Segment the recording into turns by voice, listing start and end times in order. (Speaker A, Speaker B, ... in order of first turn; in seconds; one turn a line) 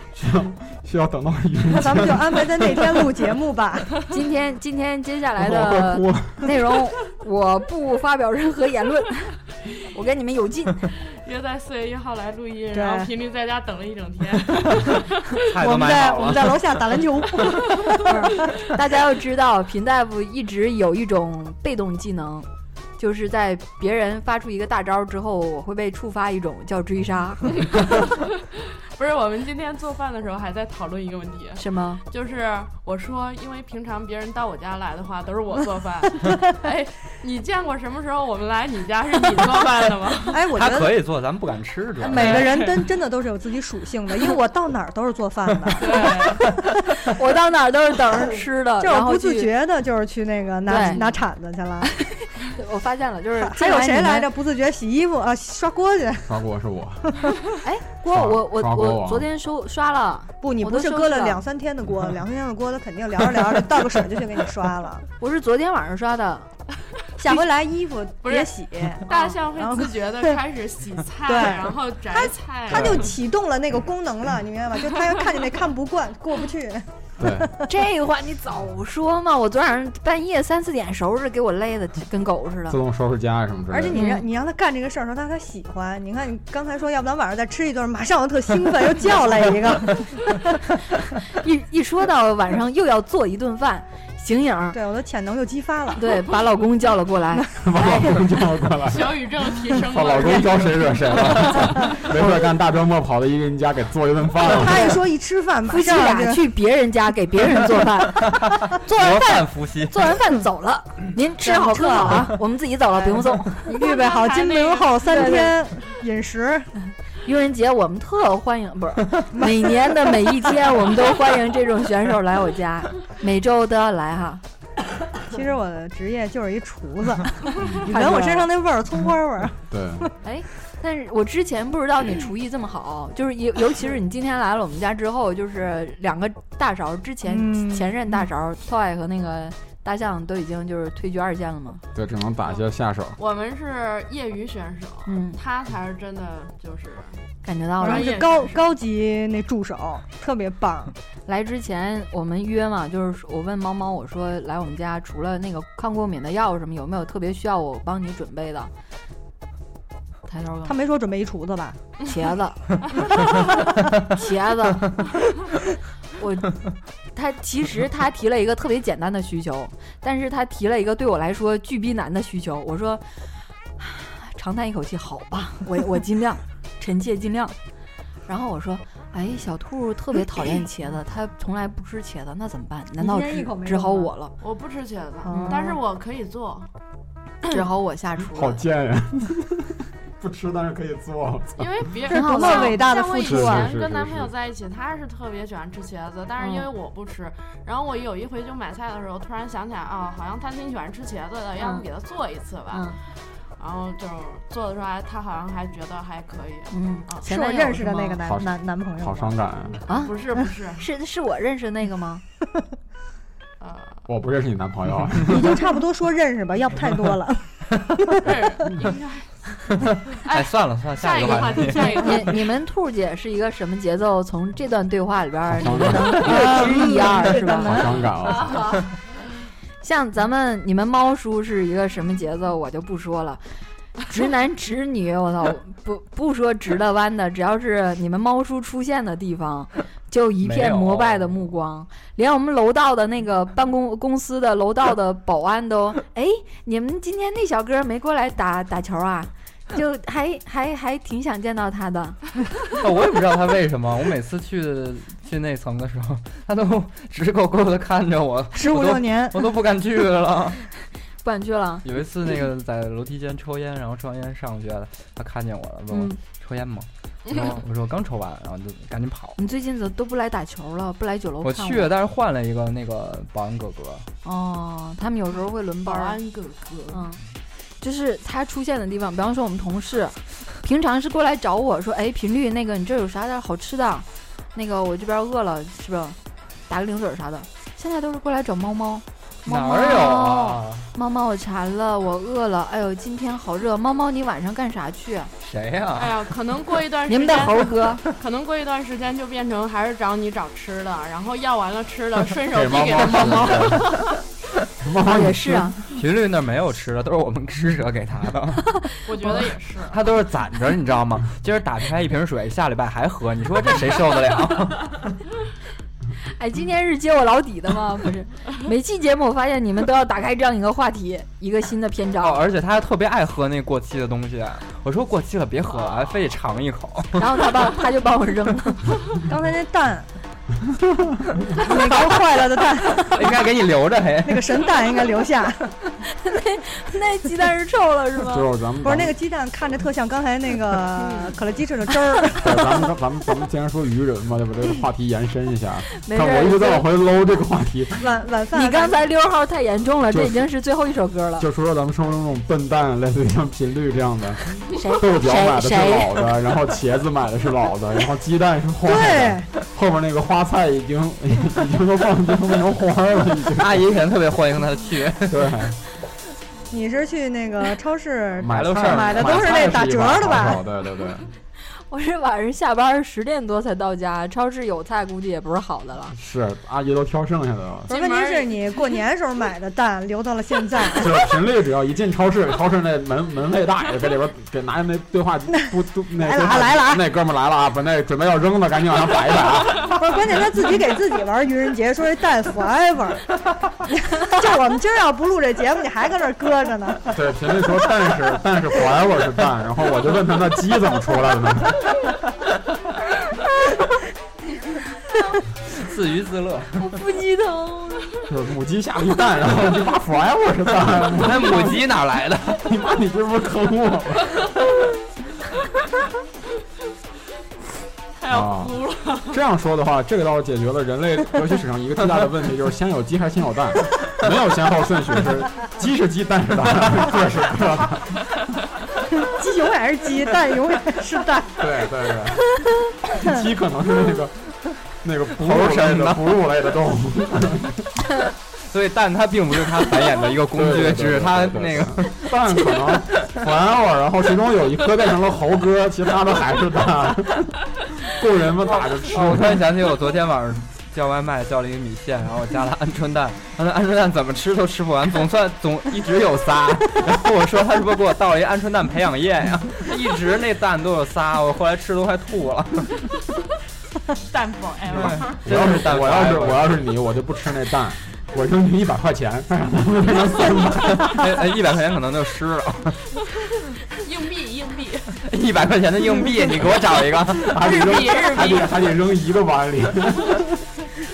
Speaker A: 0.1-3.0
Speaker B: 1.7-4.0
Speaker C: 4.1-10.9
Speaker A: 5.4-6.5
Speaker D: 11.1-15.4
Speaker B: 12.7-13.1
Speaker E: 15.4-16.8
Speaker B: 15.6-18.7
Speaker C: 18.0-27.6
Speaker D: 27.7-40.4
Speaker C: 31.6-32.0
Speaker B: 40.3-41.0
Speaker E: 40.5-42.5
Speaker B: 42.0-46.2
Speaker D: 42.2-42.9
Speaker D: 45.8-46.4
Speaker C: 47.1-49.5
Speaker B: 48.8-51.9
Speaker C: 50.7-51.1
Speaker C: 51.8-54.3
Speaker B: 53.4-56.4
Speaker A: 56.3-57.2
Speaker C: 57.6-61.4
Speaker A: 58.0-59.3
Speaker B: 60.4-65.0
Speaker C: 65.2-66.5
Speaker B: 67.2-70.3
Speaker D: 68.2-73.1
Speaker B: 71.2-77.7
Speaker A: 77.2-77.5
Speaker C: 77.7-82.8
Speaker A: 82.7-84.0
Speaker B: 83.7-90.4
Speaker C: 83.9-84.2
Speaker C: 91.2-94.8
Speaker B: 94.7-96.0
Speaker C: 96.0-98.1
Speaker B: 97.4-98.1
Speaker A: 97.6-105.0
Speaker D: 98.8-101.9
Speaker B: 104.4-106.4
Speaker C: 105.7-113.7
Speaker E: 108.3-110.0
Speaker B: 111.4-112.3
Speaker B: 113.0-116.7
Speaker D: 113.7-115.5
Speaker C: 115.0-115.5
Speaker C: 117.2-124.4
Speaker B: 119.3-120.1
Speaker B: 125.3-130.1
Speaker C: 127.8-128.5
Speaker A: 129.7-130.1
Speaker C: 130.2-141.8
Speaker B: 137.3-138.1
Speaker A: 141.9-143.2
Speaker D: 143.2-147.2
Speaker C: 145.1-145.4
Speaker C: 147.4-148.3
Speaker D: 147.8-148.7
Speaker B: 147.8-150.9
Speaker C: 151.2-158.7
Speaker C: 160.2-160.8
Speaker B: 160.6-161.8
Speaker C: 162.1-162.8
Speaker C: 164.1-165.0
Speaker C: 166.2-166.6
Speaker C: 167.1-173.2
Speaker C: 173.8-177.6
Speaker C: 178.3-184.3
Speaker B: 183.0-184.1
Speaker D: 184.4-186.7
Speaker B: 185.2-185.7
Speaker C: 185.3-185.8
Speaker C: 187.5-188.6
Speaker A: 188.3-191.9
Speaker D: 191.6-203.0
Speaker B: 192.1-193.7
Speaker C: 192.1-192.9
Speaker A: 193.2-194.3
Speaker C: 196.4-196.7
Speaker C: 201.6-201.8
Speaker C: 202.7-203.0
Speaker D: 203.6-207.3
Speaker C: 206.7-208.2
Speaker B: 207.2-209.3
Speaker A: 208.2-209.8
Speaker D: 209.7-210.9
Speaker C: 209.9-210.2
Speaker C: 210.8-212.2
Speaker D: 213.6-214.0
Speaker A: 214.1-215.6
Speaker B: 215.2-218.3
Speaker D: 218.2-222.4
Speaker E: 219.8-222.4
Speaker C: 221.9-227.9
Speaker A: 225.5-228.7
Speaker B: 226.0-228.1
Speaker D: 228.2-228.6
Speaker C: 229.8-233.4
Speaker C: 234.0-252.2
Speaker E: 240.4-241.4
Speaker E: 252.8-260.6
Speaker B: 258.5-259.4
Speaker C: 261.2-261.8
Speaker E: 261.8-269.4
Speaker C: 265.9-266.2
Speaker C: 269.4-271.9
Speaker E: 271.4-274.1
Speaker C: 274.2-276.2
Speaker D: 275.8-277.0
Speaker C: 276.9-277.2
Speaker C: 277.8-286.2
Speaker C: 286.7-295.3
Speaker E: 289.4-290.9
Speaker E: 295.4-296.3
Speaker D: 295.9-303.9
Speaker C: 297.1-298.0
Speaker A: 302.5-303.9
Speaker E: 303.0-304.0
Speaker A: 304.8-305.7
Speaker C: 305.0-305.8
Speaker E: 305.9-308.9
Speaker D: 309.1-310.0
Speaker E: 309.9-315.1
Speaker C: 316.3-322.4
Speaker E: 322.2-327.5
Speaker C: 327.1-328.9
Speaker B: 329.2-330.1
Speaker B: 331.6-333.2
Speaker E: 333.0-334.7
Speaker B: 334.2-335.7
Speaker C: 336.0-338.5
Speaker A: 338.3-339.1
Speaker B: 338.8-342.7
Speaker A: 342.4-348.0
Speaker C: 346.0-346.9
Speaker B: 348.0-349.0
Speaker C: 348.5-351.4
Speaker A: 350.1-350.5
Speaker A: 351.4-363.8
Speaker C: 354.7-356.1
Speaker B: 358.9-359.5
Speaker E: 363.6-365.6
Speaker A: 365.3-365.8
Speaker B: 366.7-370.6
Speaker A: 368.4-371.3
Speaker E: 368.4-369.7
Speaker C: 371.9-376.1
Speaker A: 376.1-377.9
Speaker B: 377.9-381.3
Speaker D: 377.9-379.1
Speaker A: 380.9-389.9
Speaker B: 385.6-387.0
Speaker B: 389.8-393.3
Speaker B: 393.8-397.2
Speaker A: 397.1-401.8
Speaker E: 405.7-407.0
Speaker C: 406.8-408.1
Speaker A: 408.3-411.7
Speaker E: 411.2-412.6
Speaker A: 412.5-414.5
Speaker D: 418.2-419.4
Speaker A: 418.3-418.8
Speaker A: 419.3-428.3
Speaker B: 429.1-431.7
Speaker A: 431.6-432.6
Speaker A: 433.1-434.5
Speaker A: 435.0-437.9
Speaker E: 435.4-436.2
Speaker E: 438.6-442.2
Speaker A: 440.5-449.6
Speaker E: 448.8-463.1
Speaker D: 464.3-465.3
Speaker E: 464.9-466.7
Speaker A: 465.4-471.2
Speaker E: 470.8-473.1
Speaker D: 473.9-475.2
Speaker E: 475.2-477.8
Speaker A: 477.4-480.7
Speaker D: 477.5-478.8